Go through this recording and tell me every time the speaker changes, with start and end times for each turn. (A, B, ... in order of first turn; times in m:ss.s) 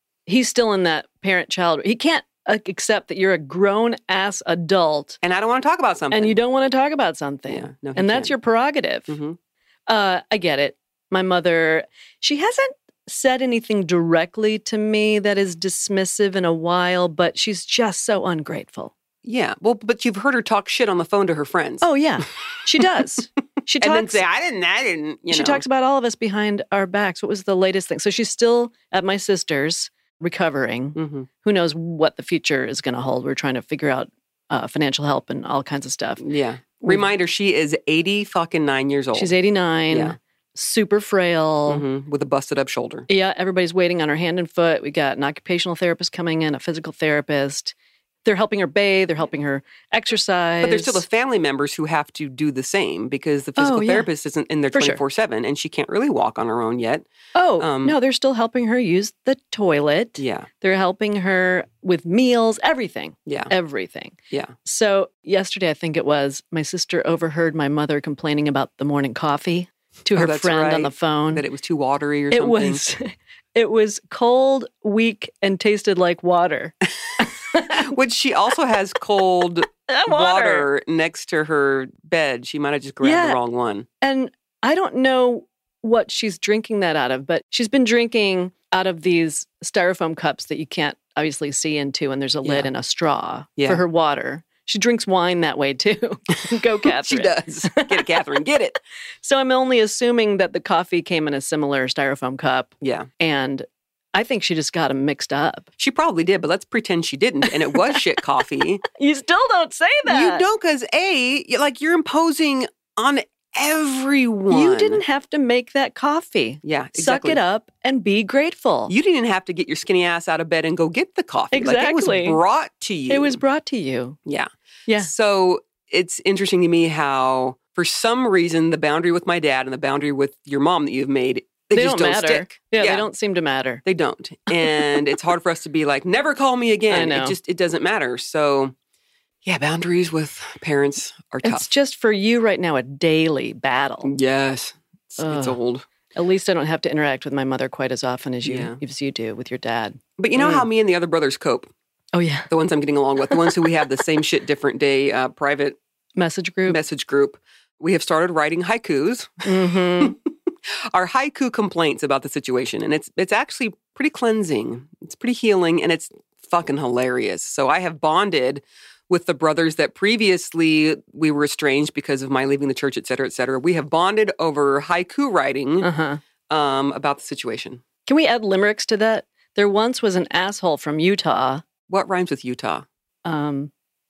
0:00.3-0:05.2 A
0:05.2-0:06.4 B
0:06.1-0:09.2 A
0:07.5-0:08.4 B
0:09.1-0:09.4 B
0:09.9-0:18.9 A
0:19.2-0:21.8 B
0:21.8-0:24.2 A
0:23.8-0:25.6 B
0:25.3-0:36.2 A
0:31.0-0:31.3 B
0:36.2-0:39.4 B
0:39.2-0:41.8 A
0:39.9-0:40.2 B
0:41.7-0:43.1 B
0:43.1-0:51.0 A
0:50.6-0:57.1 B
0:53.6-0:54.1 A
0:54.7-0:55.0 A
0:57.4-1:11.4 A
0:57.6-0:58.0 B
1:00.2-1:00.5 B
1:03.3-1:03.5 B
1:10.2-1:12.8 B
1:12.3-1:17.9 A
1:17.7-1:23.9 B
1:19.9-1:20.7 A
1:23.0-1:23.4 A
1:24.0-1:38.1 A
1:32.4-1:32.7 B
1:36.8-1:38.8 B
1:39.2-1:45.7 A
1:42.8-1:43.1 B
1:45.8-1:48.8 B
1:49.0-1:50.4 A
1:50.1-1:55.0 B
1:54.5-1:58.9 A
1:56.6-1:57.4 B
1:58.9-2:03.4 B
2:01.5-2:02.4 A
2:03.1-2:04.2 A
2:04.3-2:13.0 B
2:11.7-2:13.8 A
2:13.8-2:18.7 B
2:14.5-2:15.0 A
2:16.9-2:17.4 A
2:19.4-2:21.7 B
2:21.4-2:24.1 A
2:24.0-2:25.9 B
2:25.2-2:25.6 A
2:26.1-2:30.7 A
2:28.4-2:28.8 B
2:30.2-2:31.7 B
2:32.1-2:32.5 A
2:32.5-2:35.8 B
2:36.2-2:36.8 A
2:36.7-2:40.2 B
2:39.4-2:40.2 A
2:40.9-2:55.9 B
2:55.8-2:56.2 A
2:56.5-2:57.8 B
2:58.1-3:01.6 A
3:01.9-3:02.9 B
3:03.2-3:03.7 A